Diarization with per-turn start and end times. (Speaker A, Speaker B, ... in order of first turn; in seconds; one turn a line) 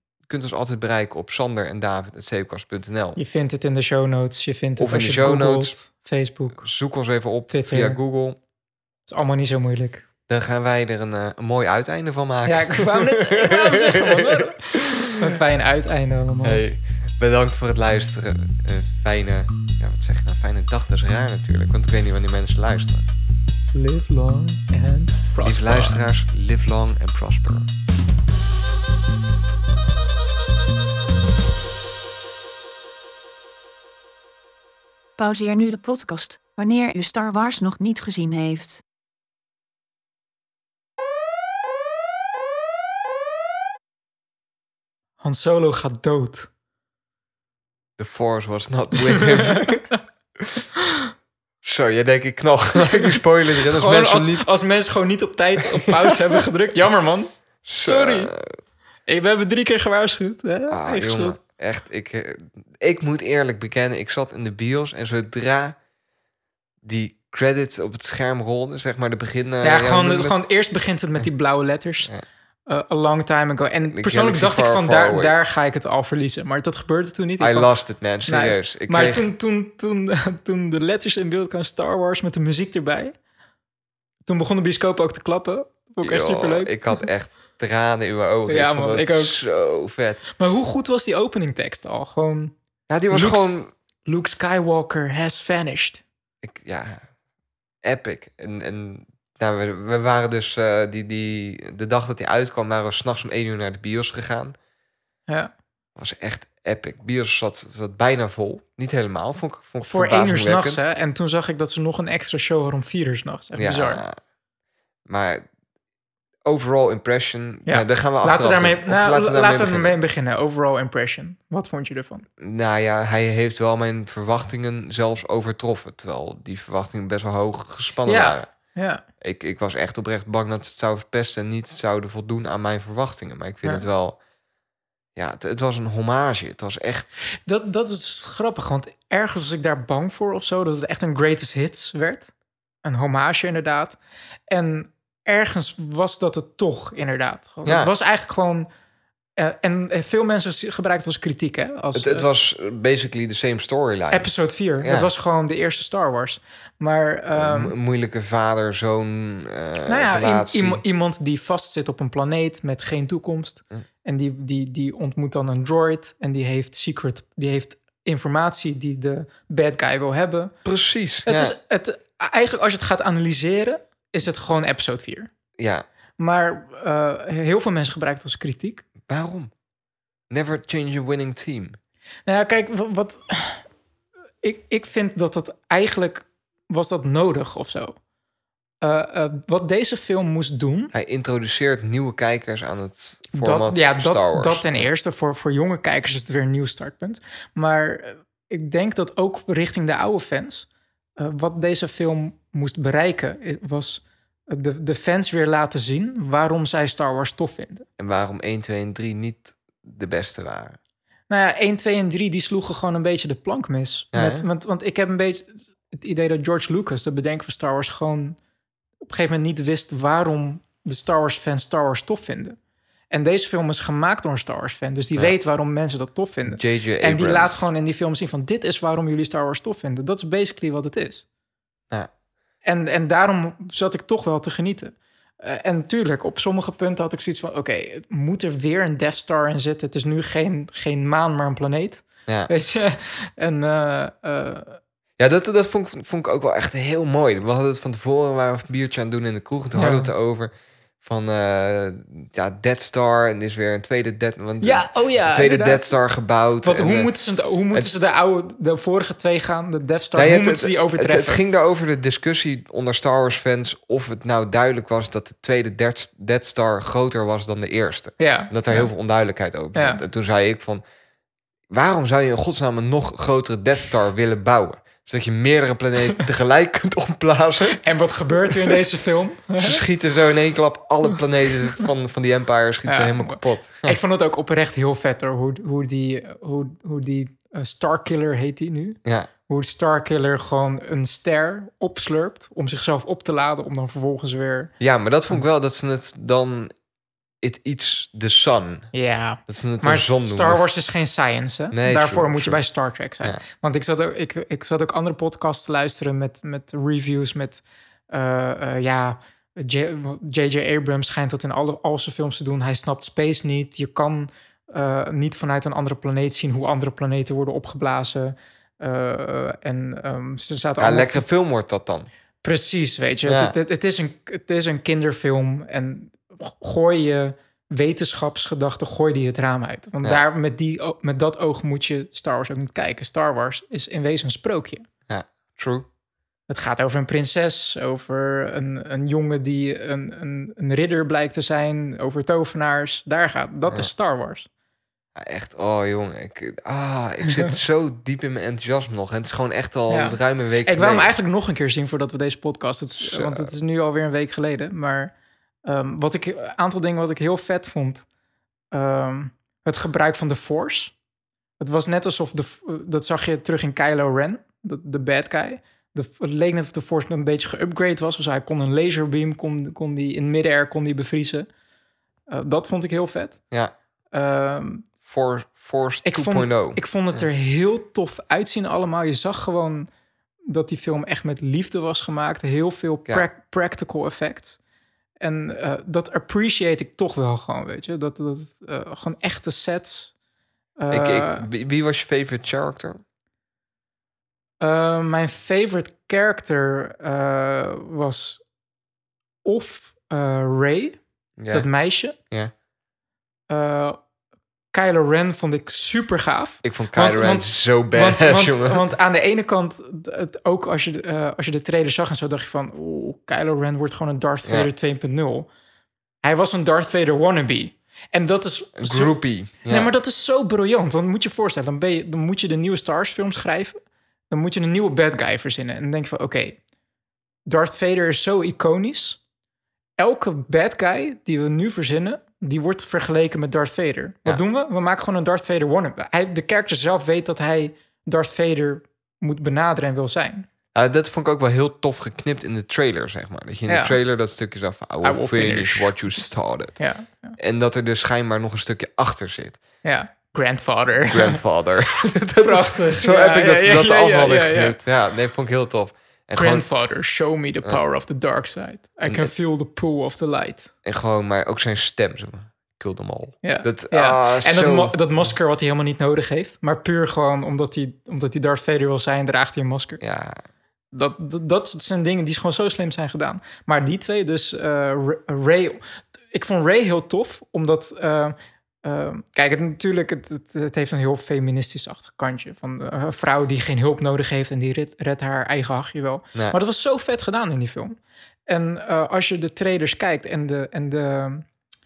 Speaker A: 0.3-3.2
Speaker B: 3.2-6.6
Speaker A: 4.8-5.8
Speaker A: 6.6-8.4
Speaker B: 7.5-8.0
Speaker B: 9.1-10.0
Speaker A: 10.3-15.2
Speaker B: 12.4-16.6
Speaker A: 16.4-23.1
Speaker B: 23.7-26.0
Speaker A: 25.4-27.7
Speaker C: 35.2-38.8
Speaker B: 45.2-46.5
Speaker A: 48.0-49.9
Speaker A: 51.6-54.5
Speaker B: 53.7-57.3
Speaker A: 55.9-56.1
Speaker A: 57.6-58.5
Speaker B: 57.8-58.3
Speaker B: 59.1-61.4
Speaker A: 60.7-65.8
Speaker A: 66.8-70.3
Speaker B: 69.6-72.1
Speaker B: 72.7-77.7
Speaker A: 73.8-75.3
Speaker A: 77.4-79.2
Speaker B: 78.2-83.1
Speaker B: 84.2-87.0
Speaker A: 86.0-90.2
Speaker B: 88.5-89.4
Speaker B: 90.4-92.5
Speaker A: 92.9-93.7
Speaker B: 93.1-96.0
Speaker A: 96.4-97.0
Speaker A: 97.8-104.5
Speaker A: 106.0-110.8
Speaker B: 109.8-114.0
Speaker A: 113.5-114.2
Speaker A: 115.1-115.4
Speaker A: 116.4-119.9
Speaker B: 117.7-122.2
Speaker A: 122.4-128.5
Speaker B: 128.0-129.0
Speaker A: 129.2-134.2
Speaker A: 135.2-137.1
Speaker B: 137.4-142.3
Speaker B: 142.8-144.0
Speaker B: 144.5-148.7
Speaker A: 147.6-147.9
Speaker B: 149.4-152.2
Speaker A: 151.9-154.3
Speaker B: 154.1-157.7
Speaker A: 154.8-155.1
Speaker A: 157.3-160.8
Speaker B: 159.8-170.5
Speaker A: 170.6-171.5
Speaker B: 171.2-175.3
Speaker A: 175.6-175.8
Speaker B: 176.2-178.8
Speaker A: 179.1-179.5
Speaker A: 180.3-181.8
Speaker B: 182.2-183.6
Speaker B: 184.4-188.0
Speaker B: 188.8-190.9
Speaker A: 190.9-194.8
Speaker B: 193.3-207.9
Speaker A: 208.0-210.8
Speaker B: 211.3-218.4
Speaker A: 214.1-214.5
Speaker B: 219.0-222.6
Speaker B: 223.1-231.2
Speaker A: 226.5-227.7
Speaker B: 232.6-244.8
Speaker A: 245.2-257.1
Speaker B: 249.7-250.1
Speaker B: 254.6-255.9
Speaker B: 256.6-261.4
Speaker A: 260.1-270.8
Speaker B: 268.2-268.9
Speaker B: 269.7-270.0
Speaker A: 271.7-277.8
Speaker B: 277.8-279.8
Speaker A: 278.5-278.8
Speaker A: 279.6-284.0
Speaker B: 282.9-294.7
Speaker A: 289.0-289.3
Speaker A: 294.8-296.7
Speaker A: 297.4-298.9
Speaker B: 298.9-321.2
Speaker A: 299.5-300.6
Speaker A: 301.7-302.6
Speaker A: 320.8-322.1
Speaker B: 322.4-334.8
Speaker A: 323.2-323.5
Speaker A: 335.1-335.9
Speaker B: 336.5-344.5
Speaker A: 345.1-351.1
Speaker B: 349.9-355.1
Speaker A: 353.0-353.5
Speaker B: 355.6-358.0
Speaker B: 358.7-360.9
Speaker B: 361.6-371.5
Speaker B: 372.3-373.4
Speaker B: 374.1-374.9
Speaker A: 375.0-377.2
Speaker B: 376.0-379.9
Speaker B: 380.5-384.6
Speaker B: 385.2-390.1
Speaker B: 390.8-391.4
Speaker A: 390.9-393.0
Speaker B: 394.6-398.4
Speaker B: 399.4-401.0
Speaker A: 401.4-401.7
Speaker B: 401.5-402.1
Speaker B: 403.5-404.0
Speaker B: 404.7-415.5
Speaker A: 406.6-408.9
Speaker B: 416.2-423.8
Speaker A: 418.8-419.9
Speaker B: 424.3-426.6
Speaker B: 427.4-429.2
Speaker B: 430.0-440.4
Speaker A: 440.7-446.8
Speaker B: 443.7-443.9
Speaker B: 445.0-447.4
Speaker A: 447.4-449.6
Speaker B: 449.8-451.4
Speaker A: 451.1-456.6
Speaker B: 452.4-454.8
Speaker B: 456.3-460.7
Speaker A: 459.1-459.3
Speaker A: 460.8-465.3
Speaker B: 463.4-470.0
Speaker A: 470.0-470.4
Speaker B: 470.9-475.8
Speaker B: 476.3-491.5